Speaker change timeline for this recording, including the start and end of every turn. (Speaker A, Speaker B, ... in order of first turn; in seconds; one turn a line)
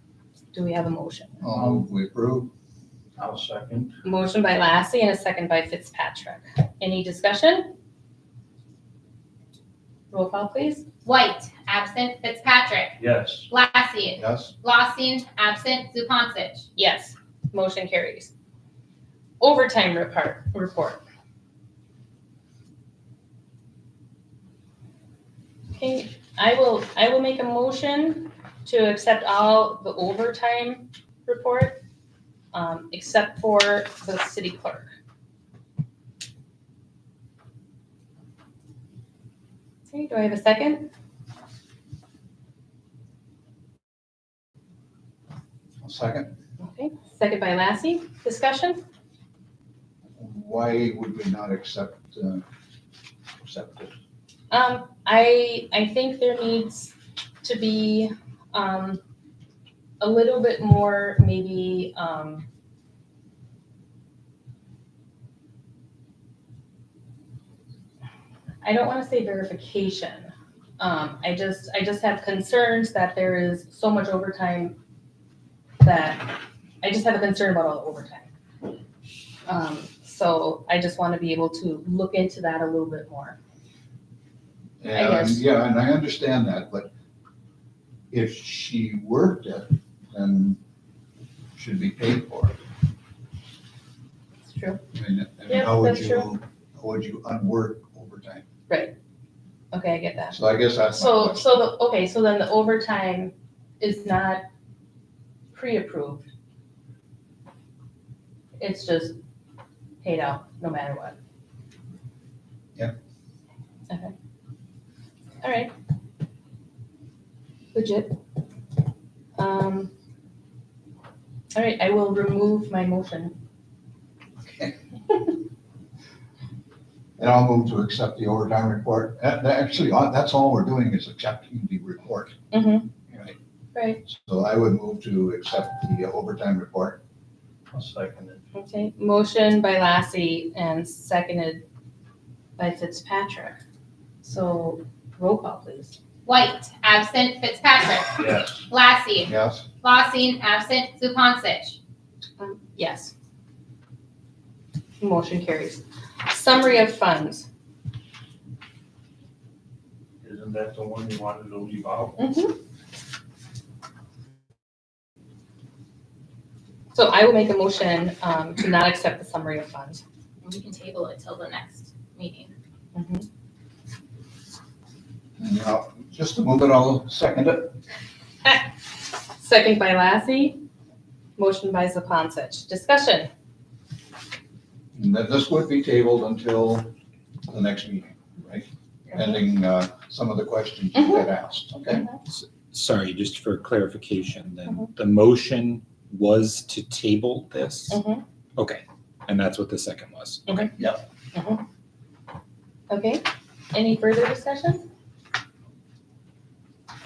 Speaker A: 0.5-1.4
Speaker B: 1.4-2.5
Speaker C: 3.2-3.9
Speaker A: 4.0-7.7
Speaker A: 10.1-10.8
Speaker D: 11.0-13.0
Speaker C: 13.0-13.5
Speaker D: 13.5-16.7
Speaker B: 14.2-14.5
Speaker A: 16.8-18.3
Speaker A: 19.4-21.0
Speaker A: 25.7-31.8
Speaker A: 32.5-34.9
Speaker A: 39.9-40.9
Speaker B: 45.8-46.3
Speaker A: 46.6-48.8
Speaker B: 50.1-52.4
Speaker B: 53.4-53.9
Speaker A: 54.5-59.0
Speaker A: 60.0-62.5
Speaker A: 68.6-74.8
Speaker A: 75.8-78.3
Speaker A: 79.5-83.4
Speaker B: 84.8-86.9
Speaker A: 84.9-85.4
Speaker B: 88.1-90.6
Speaker B: 91.5-92.6
Speaker A: 94.5-94.8
Speaker B: 94.9-98.4
Speaker A: 95.5-96.3
Speaker A: 99.7-104.4
Speaker B: 100.3-101.7
Speaker A: 105.5-106.2
Speaker A: 108.6-109.2
Speaker A: 110.0-111.2
Speaker A: 115.4-115.7
Speaker A: 117.7-118.2
Speaker A: 119.3-119.9
Speaker A: 121.5-123.3
Speaker B: 127.2-132.3
Speaker A: 132.5-132.9
Speaker B: 133.1-133.3
Speaker A: 133.7-134.0
Speaker B: 134.0-137.0
Speaker C: 137.7-138.4
Speaker A: 138.5-141.6
Speaker A: 142.6-143.6
Speaker A: 144.2-146.0
Speaker D: 146.2-151.8
Speaker C: 148.2-148.7
Speaker B: 149.2-149.6
Speaker A: 152.4-153.1
Speaker A: 155.0-157.4
Speaker C: 160.2-162.2
Speaker A: 162.2-162.6
Speaker A: 166.9-170.0
Speaker D: 170.4-172.5
Speaker A: 172.9-173.2
Speaker B: 175.4-177.7
Speaker A: 179.4-180.6
Speaker A: 181.4-183.3
Speaker B: 184.9-186.9
Speaker B: 187.5-192.1
Speaker A: 190.9-191.2
Speaker E: 192.3-198.0
Speaker A: 197.9-198.2
Speaker E: 198.6-200.7
Speaker A: 200.5-200.7
Speaker A: 201.3-201.6
Speaker A: 202.9-204.8